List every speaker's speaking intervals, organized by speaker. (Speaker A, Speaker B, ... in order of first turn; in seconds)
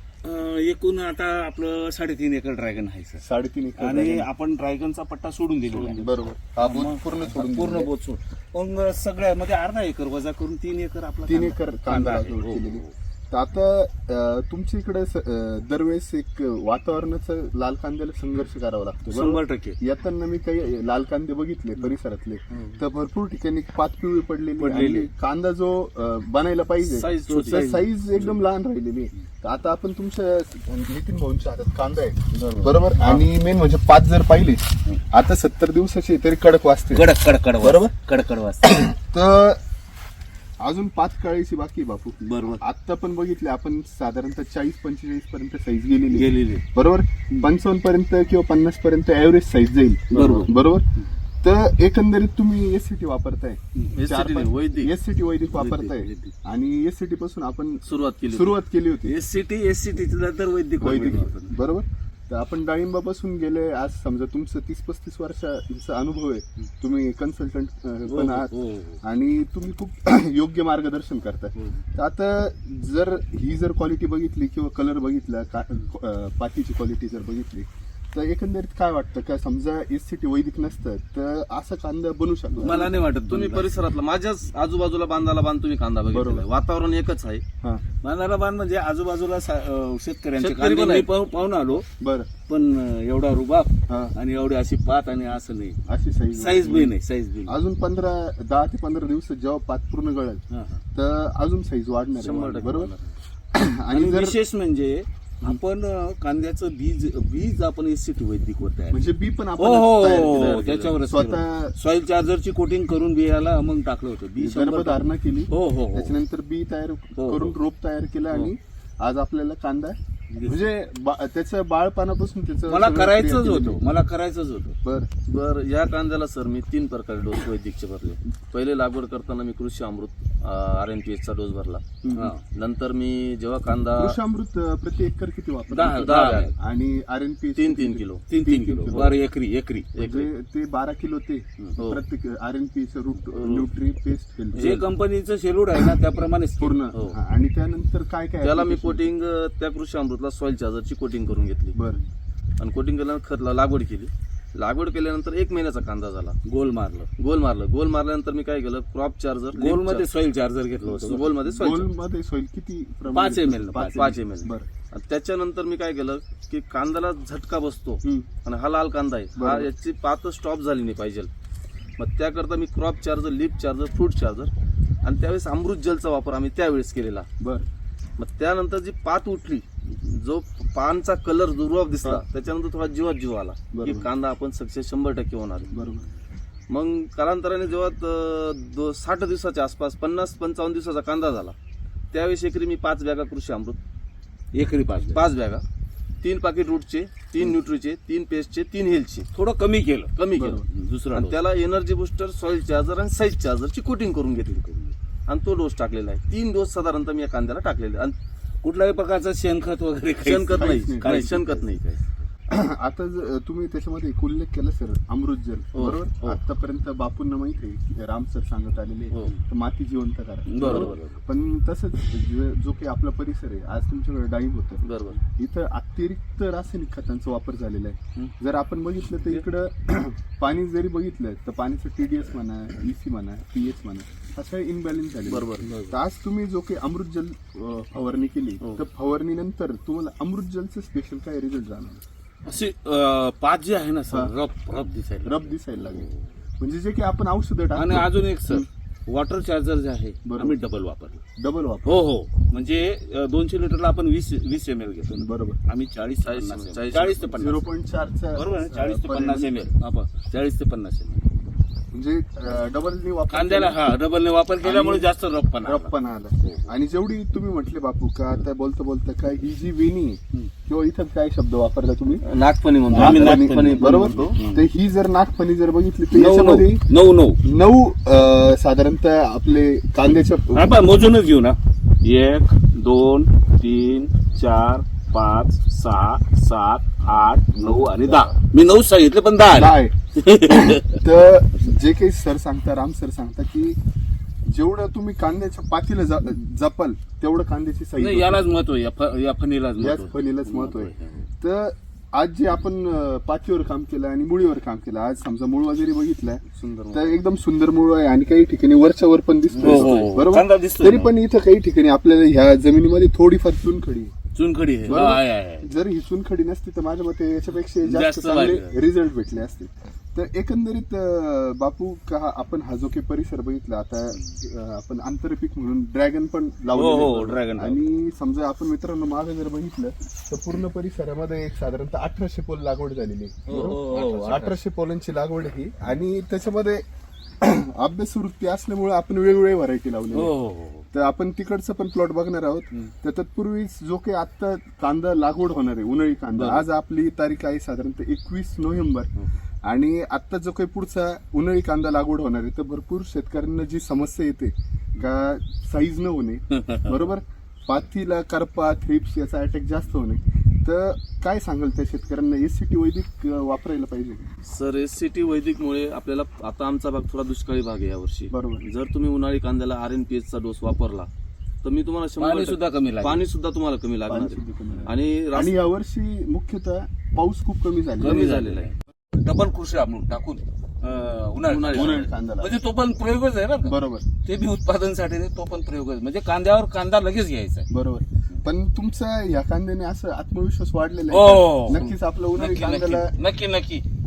Speaker A: 0.2-3.2, 3.8-12.9, 19.1-19.8, 24.6-25.1, 27.3-28.4, 32.3-33.2, 36.9-38.8, 42.2-42.6, 46.1-46.6, 50.1-50.5, 55.5-56.3, 59.1-61.6, 68.1-69.0, 71.6-71.8, 82.6-83.8, 88.0-91.9, 92.5-95.8, 96.3-97.6, 100.5-100.8, 103.9-116.2, 117.2-117.5, 120.3-120.6, 122.7-124.8, 132.1-132.4, 135.7-136.5, 138.3-139.9, 144.6-147.2, 156.5-157.1, 159.6-161.3, 163.1-164.2, 194.6-195.3, 199.3-200.1, 200.7-201.4, 208.6-211.7, 220.5-221.2, 235.6-236.0, 242.5-246.3, 247.8-251.2, 251.8-257.6, 258.3-261.3, 263.3-266.7, 272.9-274.7, 276.1-277.4, 280.5-291.0, 298.0-301.3, 309.5-311.1, 314.4-315.7, 317.7-318.8, 324.1-324.4, 326.7-327.9, 333.5-334.6, 340.1-340.9, 346.3-346.7, 356.5-356.9, 372.2-373.2, 378.0-387.7, 391.1-393.8
Speaker B: 3.2-4.3, 6.0-7.9, 11.3-37.1, 37.6-37.9, 38.6-39.6, 40.6-50.8, 51.4-59.2, 60.8-82.9, 86.1-86.5, 92.0-92.3, 93.9-94.2, 95.9-96.9, 97.5-100.4, 101.0-102.9, 103.5-104.4, 108.9-111.8, 114.4-123.8, 124.8-125.1, 132.0-132.3, 133.9-136.1, 136.6-139.1, 140.0-144.8, 146.6-149.0, 151.7-152.0, 161.5-164.7, 168.0-168.3, 169.4-169.7, 177.4-177.7, 183.7-184.1, 185.7-186.1, 200.4-200.6, 210.5-211.3, 212.5-224.8, 225.4-242.0, 245.2-248.7, 250.2-250.6, 251.4-252.0, 255.1-255.6, 257.3-259.6, 261.9-263.8, 264.6-265.1, 265.6-272.2, 272.9-276.9, 277.4-280.8, 289.5-289.9, 290.7-293.8, 294.5-298.4, 299.8-314.1, 314.9-336.8, 337.4-340.3, 340.9-349.1, 349.6-364.2, 368.3-368.6, 374.1-378.3, 381.7-382.5, 383.6-384.1, 387.7-393.2
Speaker C: 5.7-6.0, 26.8-27.6, 53.9-54.9, 57.9-58.6, 82.6-87.4, 90.4-91.1, 102.2-103.1, 110.0-111.0, 125.3-131.8, 132.5-134.2, 135.8-136.5, 137.6-138.2, 138.9-139.2, 139.9-140.3, 143.3-143.7, 148.4-151.8, 152.6-156.3, 157.2-160.1, 160.8-161.9, 163.9-171.3, 172.0-174.5, 175.0-177.3, 178.2-185.7, 186.7-191.6, 192.1-193.8, 195.1-195.6, 196.2-199.3, 200.2-208.2, 210.2-212.0, 215.7-216.0, 220.6-221.0, 224.8-225.2, 235.3-235.7, 238.6-238.9, 256.3-257.3, 272.2-274.4, 306.5-307.2, 333.5-334.4, 364.5-371.1, 371.6-375.6, 378.0-378.7, 381.4-382.1, 391.7-392.0